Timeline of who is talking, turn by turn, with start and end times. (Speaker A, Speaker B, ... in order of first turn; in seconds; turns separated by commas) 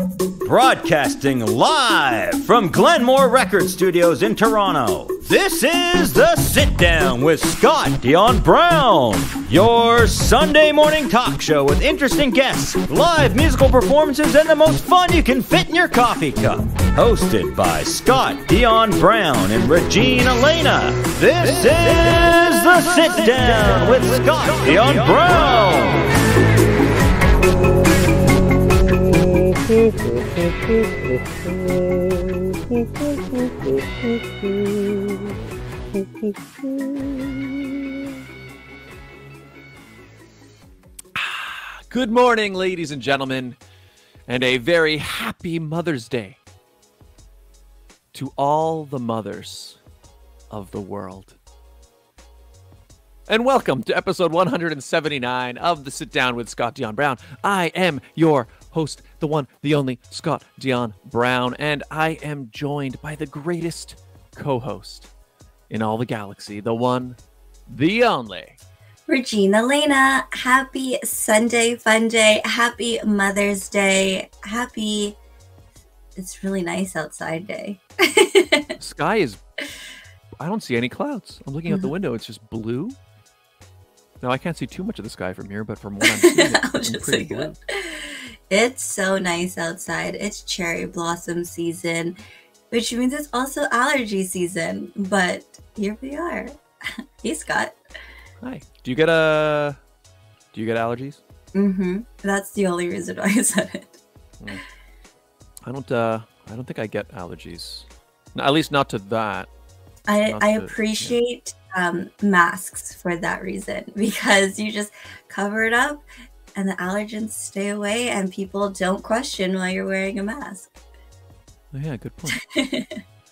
Speaker A: 0.4-26.1, Speaker B: 41.1-43.6, Speaker B: 44.3-46.4, Speaker B: 48.1-49.8, Speaker B: 50.5-51.4, Speaker B: 53.3-65.1, Speaker B: 65.7-68.6, Speaker C: 69.1-75.2, Speaker C: 76.2-78.8, Speaker B: 78.8-79.4, Speaker B: 80.4-83.0, Speaker B: 84.2-87.6, Speaker C: 86.0-92.2, Speaker C: 92.7-96.5, Speaker C: 97.2-97.8, Speaker B: 98.4-99.8, Speaker B: 100.5-101.2, Speaker C: 101.5-104.0, Speaker B: 105.7-109.5, Speaker C: 110.1-116.0, Speaker B: 110.3-111.2, Speaker C: 116.5-120.7, Speaker B: 121.7-122.5, Speaker C: 122.3-123.0